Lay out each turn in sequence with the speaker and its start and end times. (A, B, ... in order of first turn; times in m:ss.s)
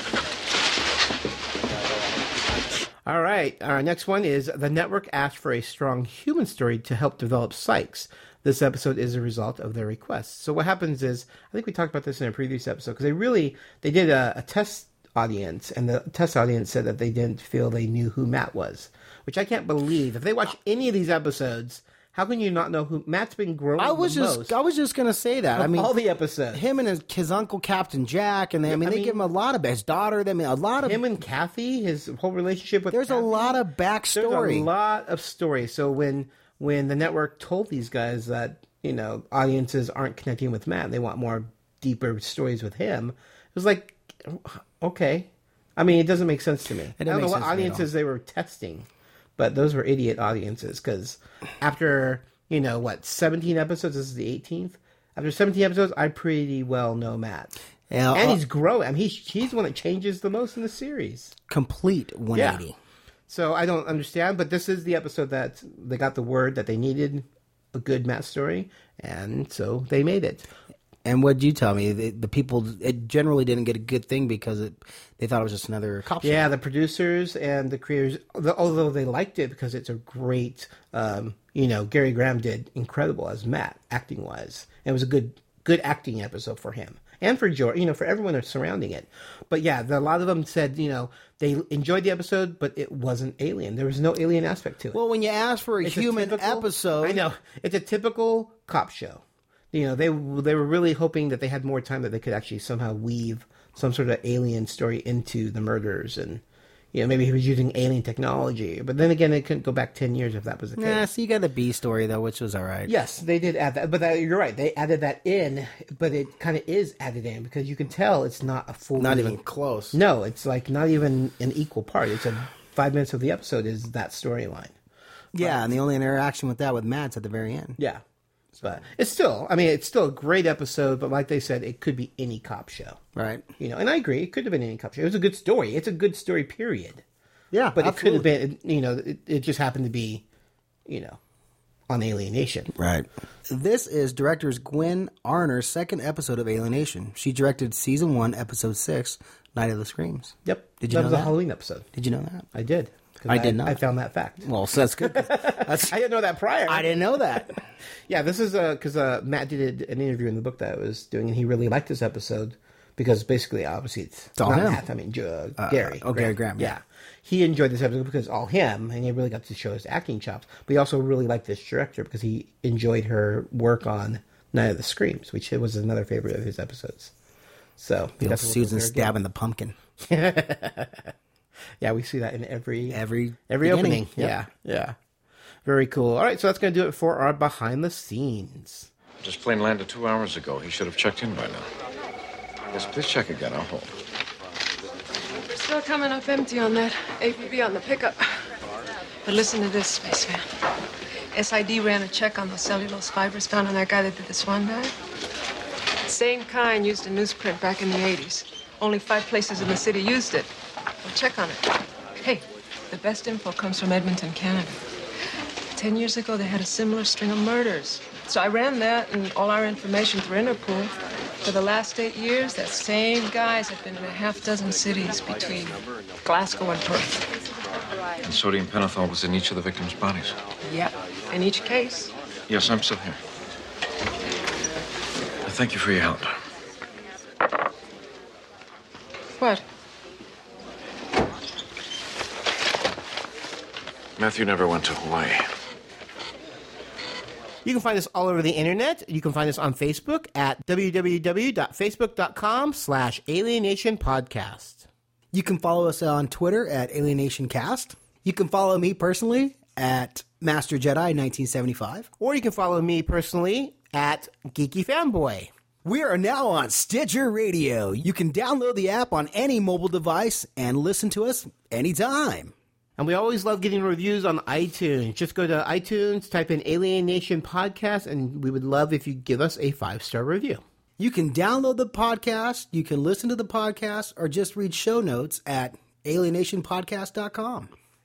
0:03.0-0:24.6 A
0:23.8-0:25.9 B
0:25.5-0:26.6 A
0:26.5-0:31.0 B
0:28.7-0:29.2 A
0:30.8-0:33.6 A
0:32.9-0:34.7 B
0:34.1-0:57.6 A
0:47.0-0:47.9 B
0:57.9-0:58.4 B
0:58.1-1:01.3 A
1:01.5-1:02.8 B
1:02.3-1:02.6 A
1:03.3-1:10.5 A
1:11.0-1:16.5 B
1:16.2-1:35.0 A
1:34.9-1:37.2 B
1:35.8-1:51.0 A
1:50.8-1:52.9 B
1:52.8-1:59.4 A
1:59.0-2:00.0 B
1:59.9-2:04.7 A
2:05.3-2:07.8 B
2:05.4-2:05.7 A
2:07.8-2:08.0 A
2:08.6-2:13.0 A
2:13.1-2:13.4 B
2:13.6-2:17.0 A
2:17.5-2:18.3 B
2:17.7-2:20.2 A
2:20.9-2:21.2 A
2:21.9-2:22.7 A
2:22.7-2:31.3 B
2:30.4-2:31.9 A
2:31.9-2:32.5 B
2:32.5-2:34.5 A
2:33.3-2:33.8 B
2:34.4-2:35.9 B
2:35.0-2:37.5 A
2:36.7-2:37.6 B
2:38.1-2:57.1 A
2:44.4-2:44.8 B
2:45.6-2:46.7 B
2:57.8-2:59.1 A
2:58.2-2:59.7 B
3:00.1-3:01.1 A
3:01.8-3:05.0 A
3:02.9-3:04.4 B
3:05.6-3:08.9 A
3:09.2-3:11.7 C
3:12.7-3:14.0 C
3:15.5-3:18.2 D
3:19.2-3:20.4 D
3:21.3-3:24.9 D
3:26.0-3:30.5 D
3:31.0-3:31.7 D
3:32.2-3:34.8 D
3:35.7-3:47.2 D
3:48.2-3:50.4 C
3:50.6-3:52.1 D
3:52.5-3:53.2 C
3:55.4-3:56.3 C
3:59.4-3:59.6 D
4:04.2-4:05.4 C
4:07.6-4:14.9 A
4:15.3-4:22.1 B
4:22.2-4:25.5 A
4:25.8-4:32.5 B
4:33.0-4:40.6 A
4:41.0-4:47.7 B